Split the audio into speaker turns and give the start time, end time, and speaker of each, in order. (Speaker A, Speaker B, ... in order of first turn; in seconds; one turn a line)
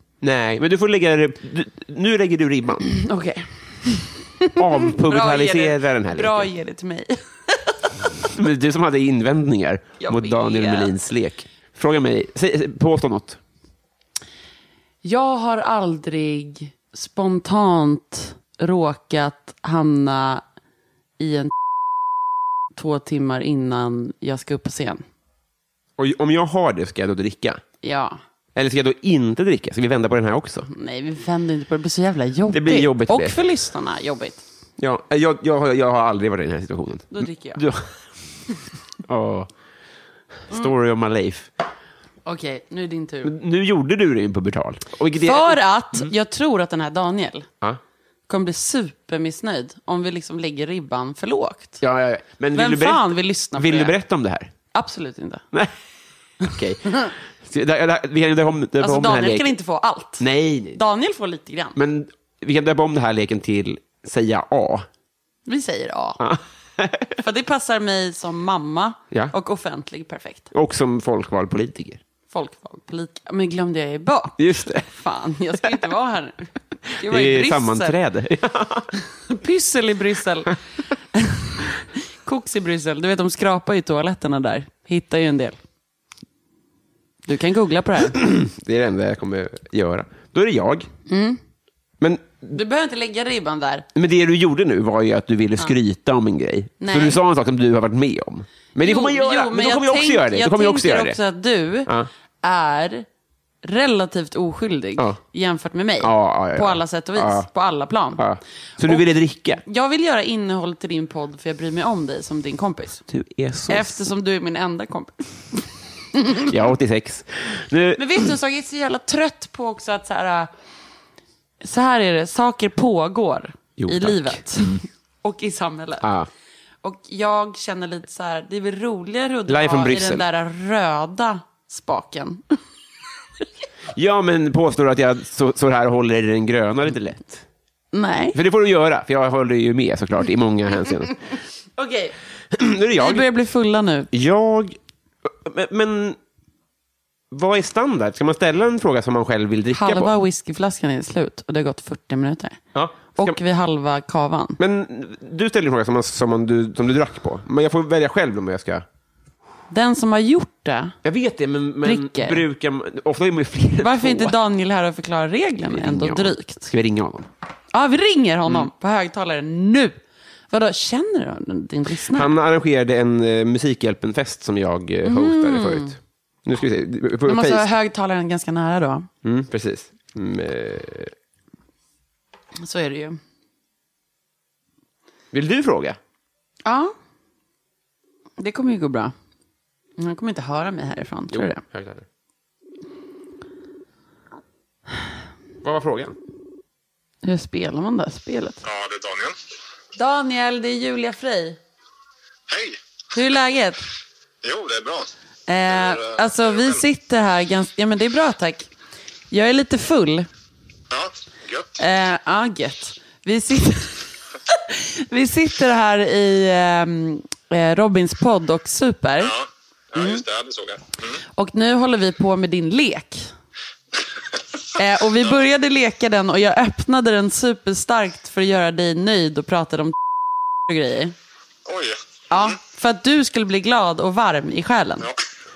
Speaker A: 0.2-2.9
Speaker B: 2.9-8.0
Speaker A: 4.6-6.5
Speaker A: 8.3-13.4
Speaker B: 10.0-10.9
Speaker B: 15.0-20.4
Speaker B: 21.2-21.5
Speaker B: 22.8-25.1
Speaker A: 26.0-27.6
Speaker B: 27.8-28.2
Speaker A: 28.6-30.7
Speaker B: 30.7-34.4
Speaker A: 32.5-33.4
Speaker A: 34.8-38.0
Speaker B: 37.1-37.6
Speaker A: 39.0-39.5
Speaker A: 40.5-41.5
Speaker B: 42.3-43.3
Speaker A: 43.2-46.1
Speaker B: 45.2-47.5
Speaker B: 48.3-51.8
Speaker A: 51.8-54.5
Speaker B: 52.5-54.0
Speaker B: 54.7-55.4
Speaker A: 56.4-59.5
Speaker B: 56.5-57.1
Speaker B: 58.8-61.8
Speaker A: 60.2-60.8
Speaker A: 61.8-64.9
Speaker B: 65.5-66.3
Speaker A: 66.2-67.2
Speaker B: 67.2-70.5
Speaker A: 70.5-72.0
Speaker B: 72.3-78.0
Speaker A: 74.4-74.9
Speaker A: 77.0-78.9
Speaker B: 79.2-80.6
Speaker B: 81.1-85.6
Speaker B: 87.3-88.2
Speaker A: 88.0-90.9
Speaker B: 91.1-91.4
Speaker A: 92.0-92.6
Speaker B: 92.5-93.9
Speaker A: 94.0-101.2
Speaker B: 96.8-97.2
Speaker B: 98.8-103.1
Speaker B: 103.6-108.2
Speaker A: 106.0-107.5
Speaker A: 108.2-109.6
Speaker B: 109.6-113.0
Speaker A: 113.1-113.9
Speaker B: 113.7-116.5
Speaker A: 116.4-118.3
Speaker B: 118.0-120.5
Speaker B: 121.6-126.1
Speaker A: 123.8-124.8
Speaker A: 126.0-126.3
Speaker B: 126.8-132.6
Speaker A: 129.5-130.2
Speaker A: 133.9-137.4
Speaker B: 137.9-138.4
Speaker A: 138.3-141.2
Speaker B: 141.8-142.2
Speaker A: 142.5-143.3
Speaker B: 143.0-144.1
Speaker A: 144.1-146.2
Speaker A: 147.3-150.1
Speaker B: 149.7-152.6
Speaker A: 152.7-153.4
Speaker B: 153.2-154.6
Speaker A: 154.6-158.8
Speaker B: 159.7-161.0
Speaker A: 161.0-164.3
Speaker B: 161.8-162.4
Speaker B: 163.8-166.7
Speaker A: 165.7-167.3
Speaker B: 167.7-170.0
Speaker B: 170.5-172.3
Speaker A: 172.1-177.7
Speaker B: 175.1-175.9
Speaker B: 177.3-179.1
Speaker A: 179.2-181.1
Speaker B: 182.6-183.2
Speaker A: 185.3-186.0
Speaker B: 186.7-186.9
Speaker B: 188.4-189.1
Speaker B: 190.0-191.6
Speaker A: 191.3-192.1
Speaker A: 195.6-196.2
Speaker B: 197.2-198.6
Speaker C: 198.6-199.4
Speaker B: 200.0-201.6
Speaker C: 202.5-202.8
Speaker B: 203.1-203.9
Speaker C: 204.4-205.1
Speaker B: 205.5-208.7
Speaker C: 205.7-206.8
Speaker B: 209.3-210.3
Speaker C: 210.9-211.8
Speaker B: 211.8-219.3
Speaker C: 219.2-221.2
Speaker B: 219.9-220.2
Speaker B: 221.3-223.3
Speaker B: 224.8-230.0
Speaker B: 230.7-231.2
Speaker C: 231.7-232.6
Speaker B: 232.3-235.1